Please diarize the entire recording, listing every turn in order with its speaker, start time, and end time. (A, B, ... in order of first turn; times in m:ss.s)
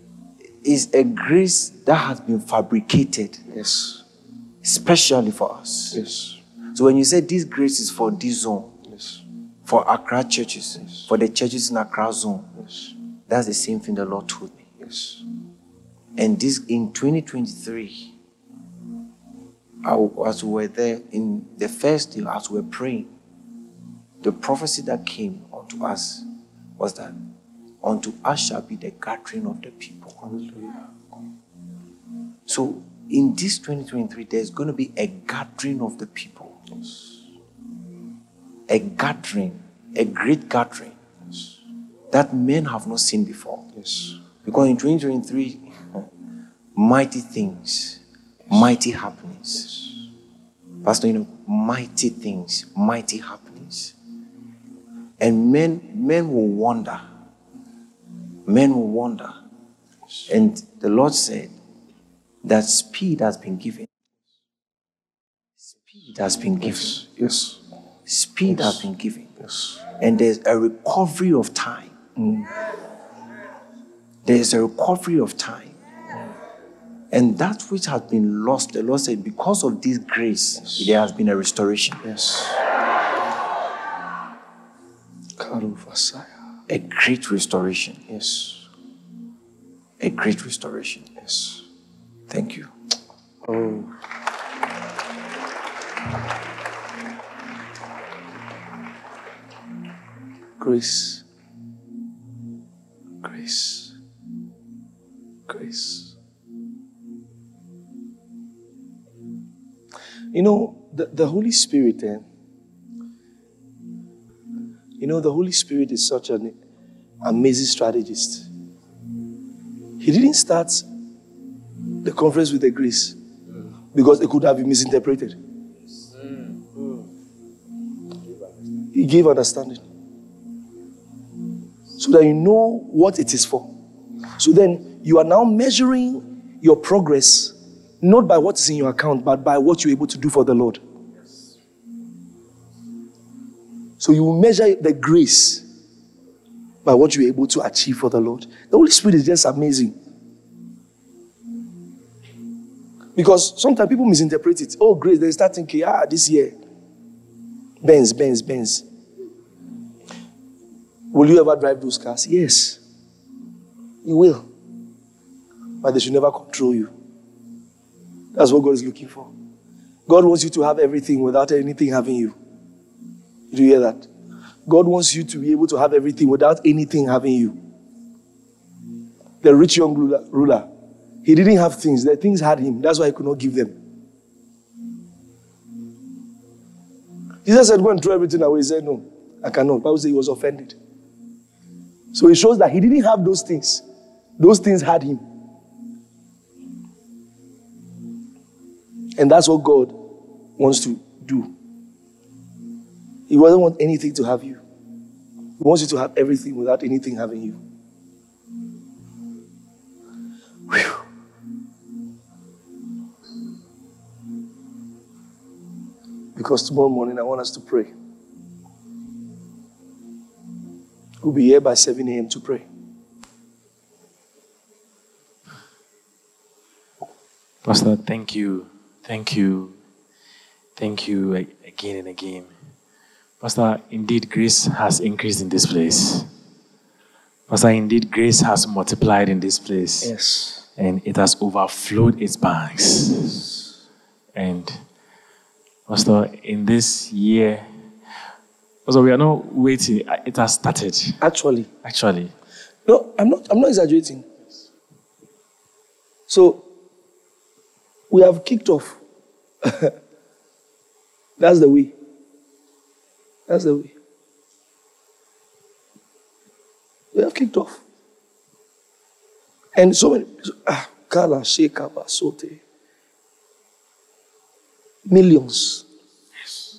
0:00.6-0:03.4 A
0:03.5-0:04.0 B
0:04.6-0:06.0 A
0:05.9-0:06.4 B
0:06.7-0:08.8 A
0:08.9-0:09.2 B
0:09.6-0:12.5 A
0:10.8-0:11.1 B
0:12.6-0:12.8 B
0:13.3-0:14.7 A
0:14.8-0:15.2 B
0:16.2-0:18.1 A
0:19.8-0:23.1 A
0:24.2-0:27.2 A
0:27.8-0:30.3 A
0:30.2-0:30.7 B
0:32.5-0:36.6 A
0:38.7-0:41.0 A
0:42.1-0:43.7 A
0:43.8-0:44.2 B
0:44.4-0:46.1 A
0:46.8-0:49.7 A
0:50.8-0:54.0 A
0:55.2-0:57.0 A
0:58.4-0:59.4 A
1:00.3-1:01.5 A
1:02.4-1:03.9 A
1:06.0-1:07.0 A
1:06.6-1:07.6 B
1:08.1-1:09.3 A
1:08.5-1:08.8 B
1:09.4-1:09.8 B
1:10.0-1:11.9 A
1:12.2-1:12.5 B
1:14.2-1:15.8 A
1:17.1-1:22.0 A
1:20.6-1:20.9 B
1:22.0-1:22.6 B
1:25.4-1:26.3 B
1:26.7-1:28.0 A
1:28.1-1:28.7 B
1:30.0-1:31.0 A
1:31.2-1:31.6 B
1:32.3-1:32.7 A
1:33.4-1:33.9 B
1:40.6-1:41.2 B
1:43.2-1:44.0 B
1:45.5-1:46.2 B
1:50.3-1:52.3 B
1:55.0-1:56.6 B
1:57.2-1:58.5 B
2:00.0-2:00.9 B
2:02.0-2:03.2 B
2:03.9-2:05.4 B
2:08.9-2:09.8 B
2:12.0-2:13.7 B
2:14.4-2:20.8 B
2:24.0-2:25.6 B
2:26.8-2:30.0 B
2:33.2-2:36.6 B
2:37.8-2:38.8 B
2:41.1-2:42.8 B
2:44.0-2:44.5 B
2:45.8-2:46.9 B
2:48.3-2:49.3 B
2:50.1-2:52.4 B
2:53.5-2:54.1 B
2:54.7-2:57.6 B
2:59.4-3:00.7 B
3:01.2-3:03.8 B
3:07.4-3:10.8 B
3:12.1-3:13.8 B
3:14.4-3:15.2 B
3:19.2-3:20.0 B
3:20.6-3:21.5 B
3:23.3-3:24.6 B
3:25.6-3:27.6 B
3:30.7-3:31.0 B
3:36.4-3:37.9 B
3:41.2-3:42.7 B
3:47.6-3:49.8 C
3:50.8-3:52.5 C
3:53.4-3:56.3 C
3:57.5-4:00.1 C
4:00.0-4:00.6 B
4:00.8-4:03.3 C
4:04.4-4:04.8 C
4:05.9-4:07.7 C
4:08.9-4:11.2 C
4:11.2-4:11.7 B
4:11.8-4:12.3 C
4:12.9-4:14.2 B
4:16.3-4:16.6 B
4:18.1-4:19.0 B
4:19.6-4:19.9 B
4:21.4-4:22.0 B
4:23.5-4:24.0 B
4:27.1-4:27.8 B
4:29.8-4:32.6 B
4:35.1-4:35.9 B